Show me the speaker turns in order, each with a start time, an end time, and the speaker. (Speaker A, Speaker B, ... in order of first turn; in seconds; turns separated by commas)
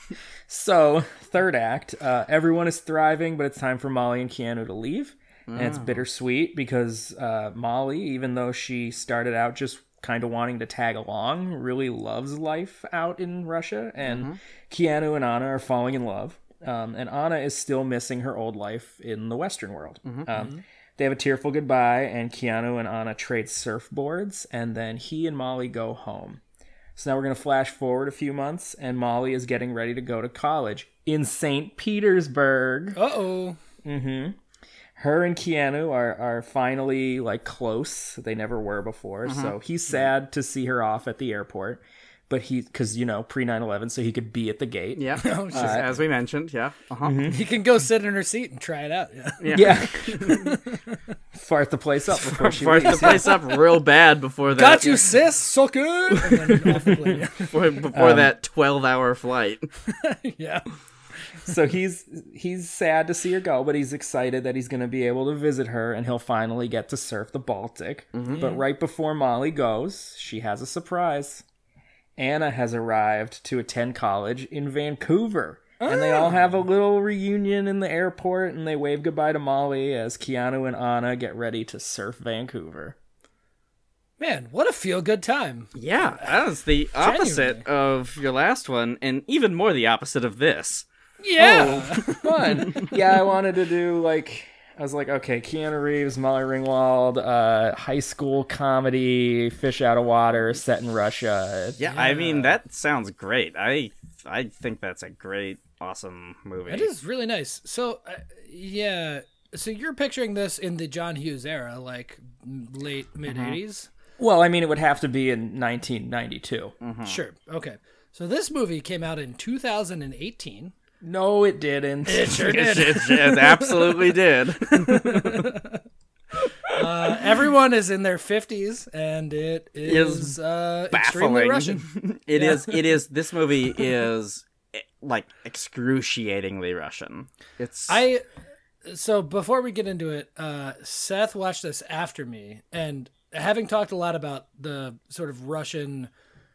Speaker A: 0.5-26.4, Speaker B: 5.5-6.0, Speaker B: 14.0-14.4, Speaker C: 20.3-20.6, Speaker A: 27.0-33.0, Speaker C: 33.0-33.6, Speaker A: 33.8-34.4, Speaker A: 35.0-45.9, Speaker B: 39.2-39.5, Speaker B: 45.0-47.2, Speaker C: 45.2-45.9, Speaker A: 47.0-47.4, Speaker C: 47.3-51.0, Speaker B: 49.4-50.5, Speaker A: 49.5-50.4, Speaker A: 51.4-53.4, Speaker B: 52.2-55.1, Speaker C: 52.9-53.4, Speaker C: 54.5-57.6, Speaker A: 56.2-57.2, Speaker B: 57.4-59.7, Speaker A: 57.9-58.3, Speaker C: 59.9-60.7, Speaker A: 61.5-71.4, Speaker B: 68.1-68.5, Speaker C: 68.3-68.6, Speaker A: 72.2-83.0, Speaker C: 75.8-76.4, Speaker C: 84.2-86.4, Speaker B: 85.8-90.9, Speaker C: 87.0-87.6, Speaker C: 91.2-92.7, Speaker A: 91.4-101.8, Speaker B: 101.8-106.9, Speaker C: 101.8-102.6, Speaker C: 106.7-113.9, Speaker B: 113.3-113.6, Speaker A: 114.2-116.8, Speaker B: 116.8-117.2, Speaker C: 117.0-120.7, Speaker A: 121.0-122.6, Speaker C: 122.1-124.1, Speaker B: 122.4-125.5, Speaker C: 124.7-125.8, Speaker C: 126.7-132.9, Speaker B: 129.8-130.3, Speaker B: 130.9-138.0, Speaker C: 137.9-138.2, Speaker C: 138.8-146.1